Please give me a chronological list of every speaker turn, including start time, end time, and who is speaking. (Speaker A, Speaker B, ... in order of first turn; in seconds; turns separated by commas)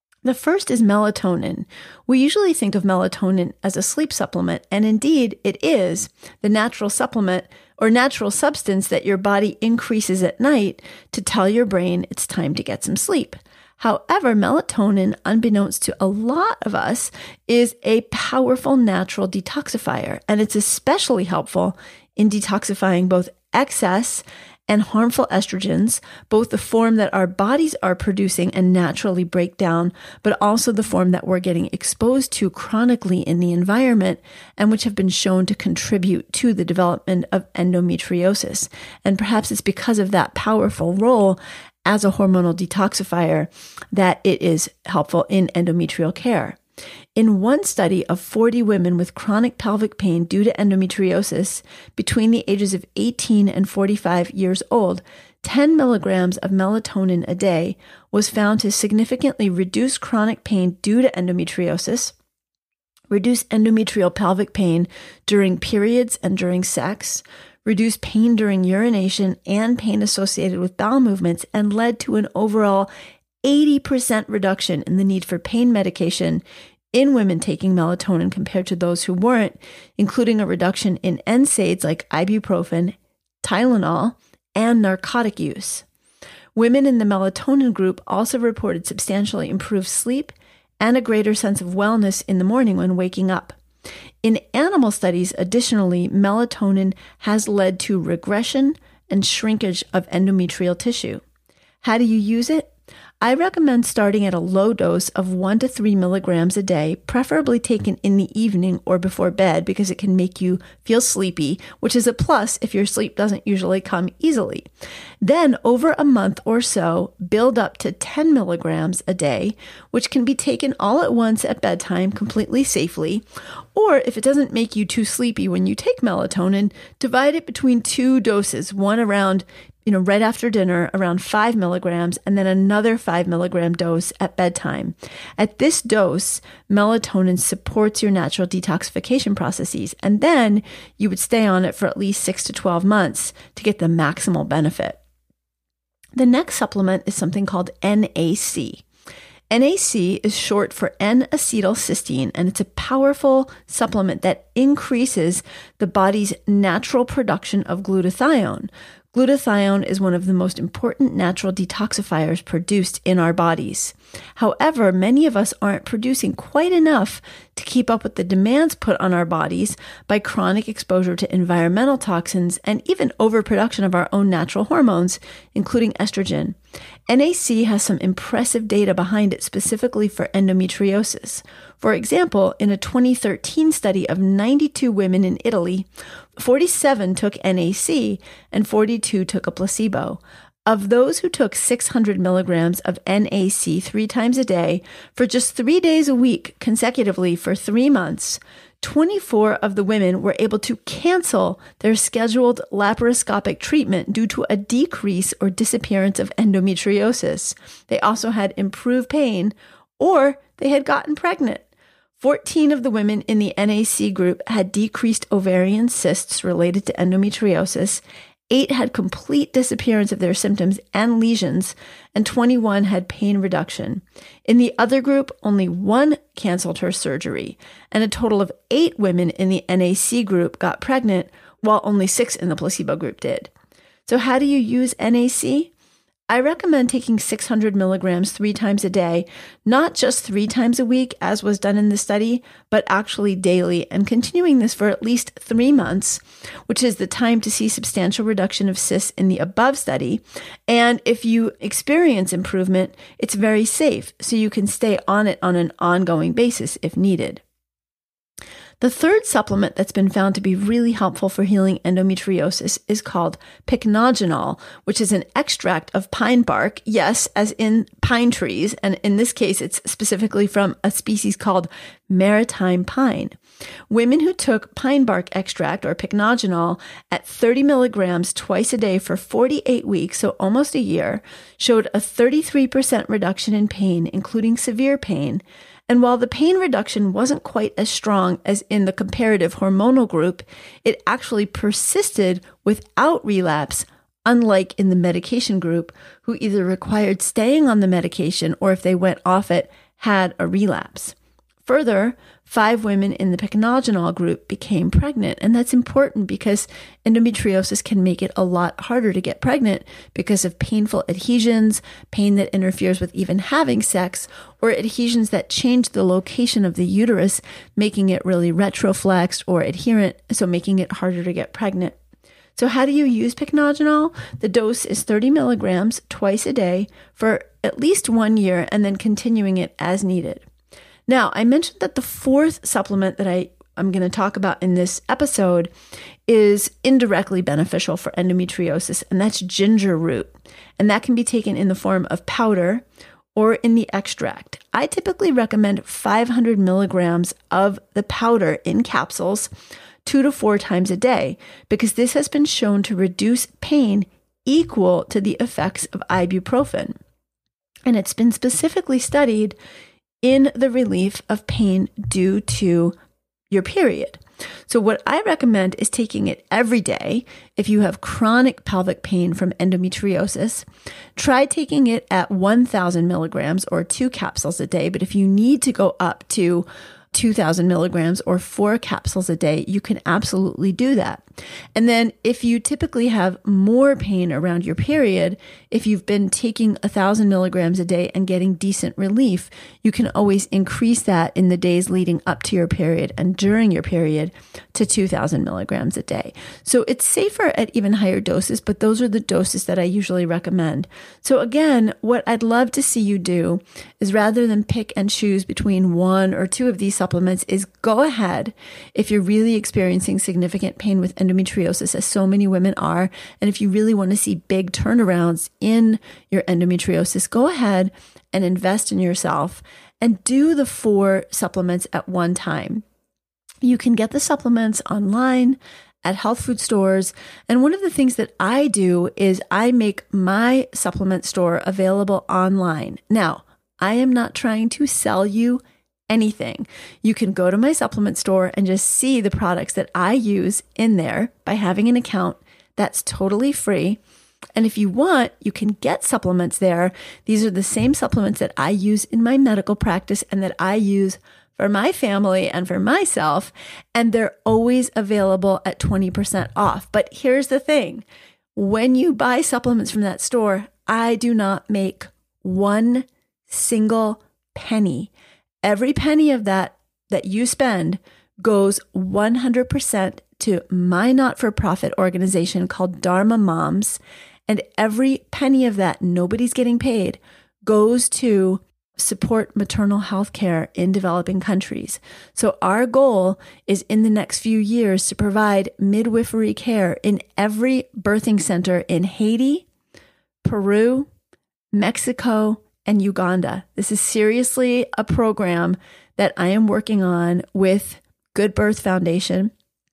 Speaker A: 0.2-46.6, Speaker A: 47.1-62.1, Speaker A: 63.1-72.9, Speaker A: 73.4-85.9, Speaker A: 86.5-93.6, Speaker A: 94.2-101.2, Speaker A: 101.8-114.7, Speaker A: 115.2-123.2, Speaker A: 123.8-145.0, Speaker A: 146.1-148.8, Speaker A: 149.5-176.6, Speaker A: 177.1-211.7, Speaker A: 212.2-233.5, Speaker A: 234.1-235.7, Speaker A: 236.3-257.4, Speaker A: 258.8-273.4, Speaker A: 273.9-322.0, Speaker A: 322.6-330.4, Speaker A: 331.1-335.7, Speaker A: 336.3-342.8, Speaker A: 343.4-349.5, Speaker A: 350.0-357.0, Speaker A: 357.9-359.6, Speaker A: 360.2-363.0, Speaker A: 363.5-381.2, Speaker A: 381.8-422.8, Speaker A: 423.6-444.0, Speaker A: 444.6-458.0, Speaker A: 458.5-465.1, Speaker A: 465.6-489.6, Speaker A: 490.4-491.1, Speaker A: 491.7-499.5